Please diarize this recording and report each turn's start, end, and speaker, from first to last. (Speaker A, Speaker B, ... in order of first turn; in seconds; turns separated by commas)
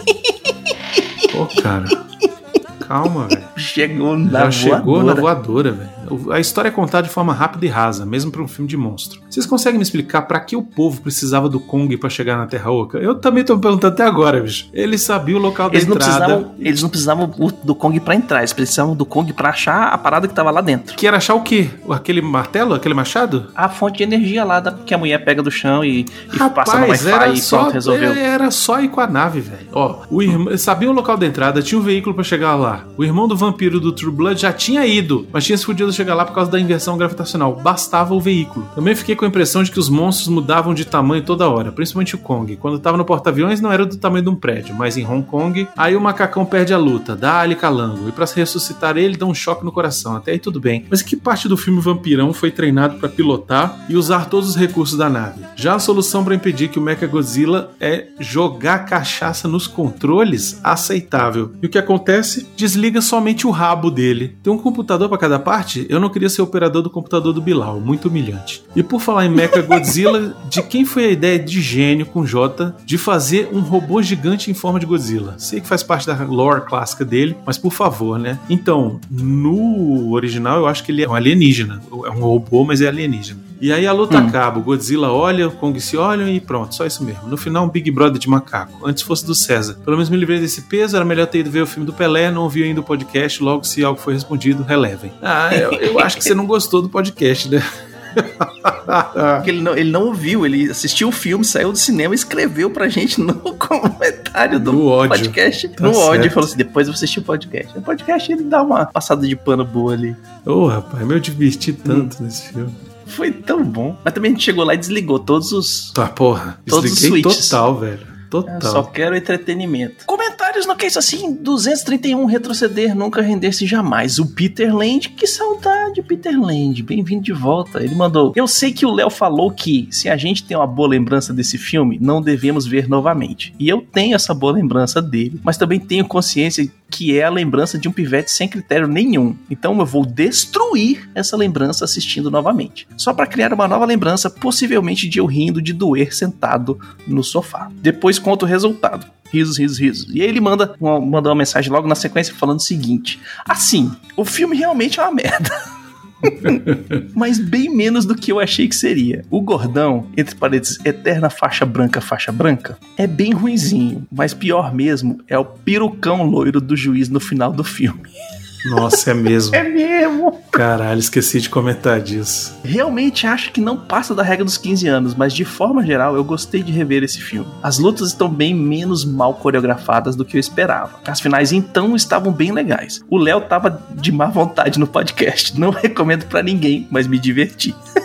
Speaker A: 1.3-2.0, Speaker A: 2.8-3.5, Speaker B: 3.5-5.3, Speaker A: 4.2-16.5, Speaker B: 15.7-21.0, Speaker A: 21.0-23.5, Speaker B: 23.6-28.2, Speaker A: 26.3-99.5, Speaker B: 84.1-84.3, Speaker B: 95.5-96.3, Speaker B: 99.4-110.2, Speaker A: 104.5-106.5, Speaker A: 110.4-112.8, Speaker B: 111.8-112.1, Speaker B: 113.1-115.9, Speaker A: 115.9-118.9, Speaker B: 116.7-117.6, Speaker B: 118.5-155.6, Speaker B: 156.2-168.1, Speaker A: 156.4-157.0, Speaker A: 168.6-169.6, Speaker B: 169.5-170.6, Speaker A: 170.5-172.6, Speaker B: 172.6-187.8